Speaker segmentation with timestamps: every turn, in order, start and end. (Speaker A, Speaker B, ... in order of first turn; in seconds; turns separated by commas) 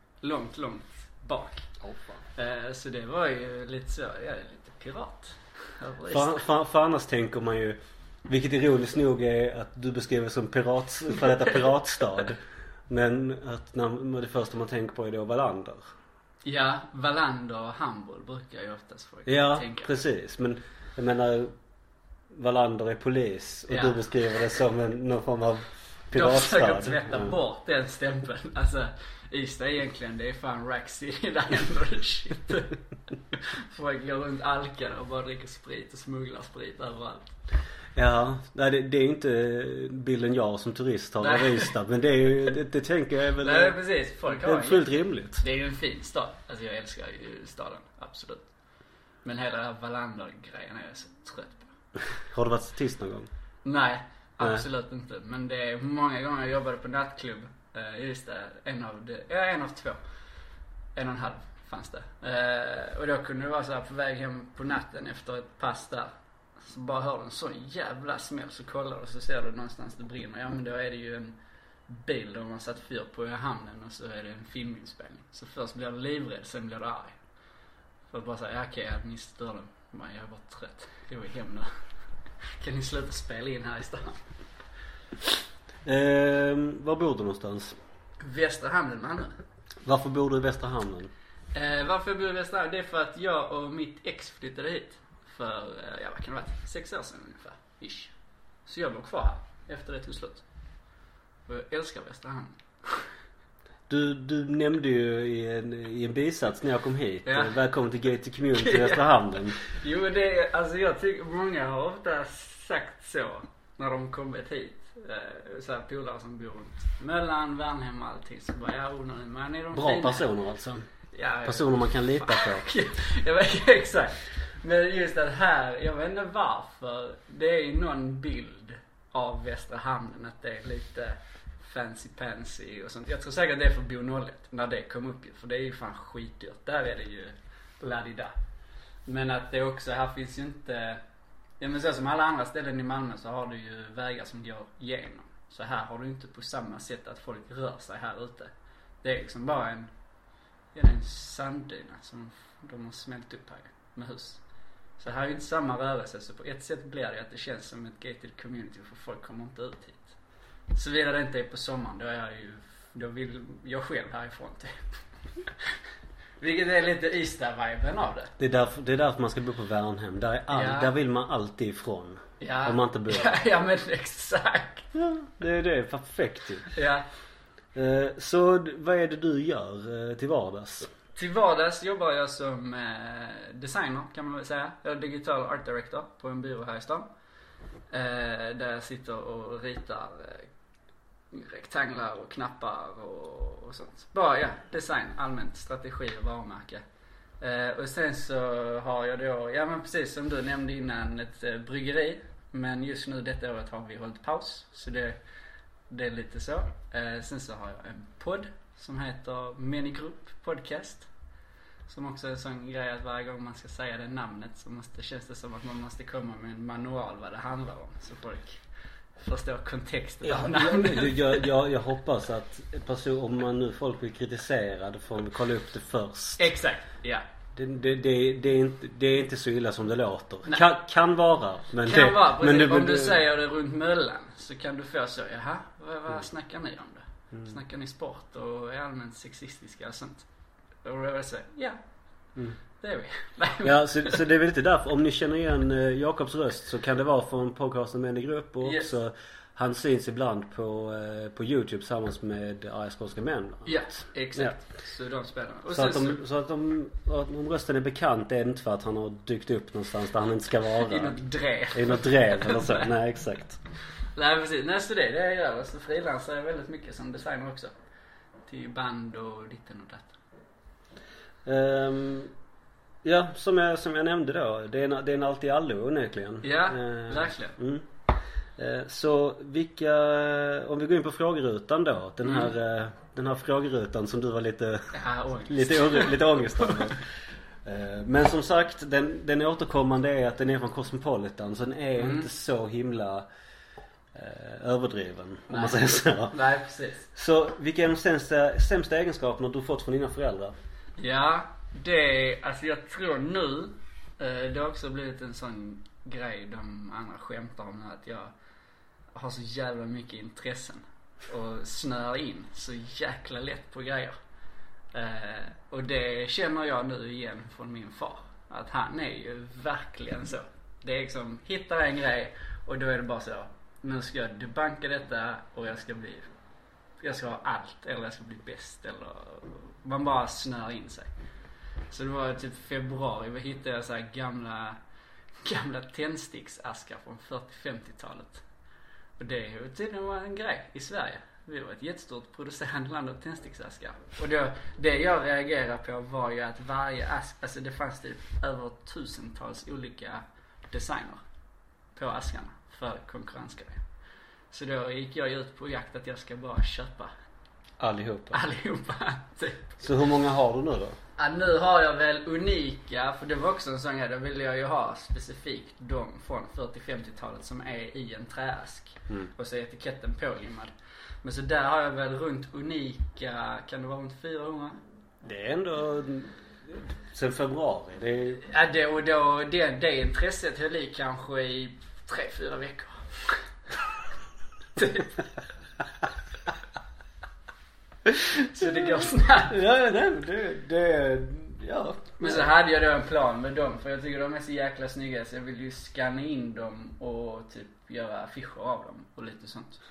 Speaker A: 0.2-1.7, Speaker B: 1.8-2.2, Speaker A: 2.4-6.4, Speaker B: 6.1-15.9, Speaker A: 16.4-19.9, Speaker B: 19.2-21.5, Speaker B: 22.3-27.3, Speaker A: 23.7-24.0, Speaker A: 26.1-32.8, Speaker A: 33.3-37.3, Speaker B: 38.0-43.8, Speaker A: 41.2-41.7, Speaker A: 43.4-44.8, Speaker B: 44.4-45.4, Speaker A: 45.4-48.5, Speaker A: 49.2-51.7, Speaker B: 52.1-53.3, Speaker A: 53.6-60.0, Speaker A: 60.9-71.3, Speaker A: 71.9-77.2, Speaker A: 78.1-81.8, Speaker A: 82.6-84.2, Speaker B: 85.8-87.8, Speaker A: 88.2-89.4, Speaker B: 89.8-91.1, Speaker A: 91.5-98.1, Speaker A: 98.7-100.4, Speaker A: 101.5-103.1, Speaker B: 103.9-109.6, Speaker A: 107.2-107.5, Speaker A: 108.6-120.3, Speaker B: 119.7-120.8, Speaker A: 121.1-138.3, Speaker B: 121.4-122.7, Speaker A: 139.1-141.0, Speaker A: 141.6-148.5, Speaker A: 149.0-149.9, Speaker A: 150.7-154.4, Speaker A: 155.0-160.1, Speaker A: 160.7-165.7, Speaker A: 166.4-168.3, Speaker B: 168.4-173.3, Speaker A: 170.5-170.9, Speaker A: 172.4-174.9, Speaker B: 174.9-176.7, Speaker A: 176.7-177.1, Speaker B: 177.7-180.9, Speaker A: 181.1-187.1, Speaker A: 187.9-190.5, Speaker A: 191.3-196.8, Speaker A: 197.4-205.2, Speaker A: 205.9-211.1, Speaker A: 211.9-218.6, Speaker A: 219.2-221.5, Speaker B: 220.2-226.5, Speaker A: 226.4-227.2, Speaker B: 227.5-233.2, Speaker A: 231.8-240.3, Speaker A: 240.8-241.8, Speaker A: 242.8-244.2, Speaker B: 243.6-254.5, Speaker A: 253.6-256.2, Speaker B: 255.7-261.2, Speaker A: 260.9-262.9, Speaker B: 261.7-263.6, Speaker A: 264.1-267.7, Speaker A: 268.5-270.2, Speaker B: 271.4-272.3, Speaker B: 273.0-277.9, Speaker A: 276.4-277.6, Speaker B: 278.6-287.1, Speaker A: 282.2-282.5, Speaker A: 284.9-286.8, Speaker B: 287.6-293.2, Speaker A: 292.0-292.3, Speaker B: 294.1-296.4, Speaker A: 295.5-297.1, Speaker B: 297.1-300.5, Speaker A: 301.0-308.3, Speaker A: 309.1-314.1, Speaker A: 314.9-326.3, Speaker A: 327.0-331.1, Speaker A: 331.9-334.8, Speaker A: 335.4-338.4, Speaker A: 339.2-351.2, Speaker A: 351.9-353.8, Speaker A: 354.5-357.1, Speaker B: 357.8-358.4, Speaker A: 358.3-359.8, Speaker B: 359.8-361.0, Speaker A: 361.2-370.7, Speaker A: 371.2-374.8, Speaker B: 375.2-378.4, Speaker A: 378.4-383.4, Speaker A: 384.8-385.2, Speaker B: 388.1-388.9, Speaker A: 388.4-389.5, Speaker B: 389.5-392.5, Speaker A: 392.2-399.8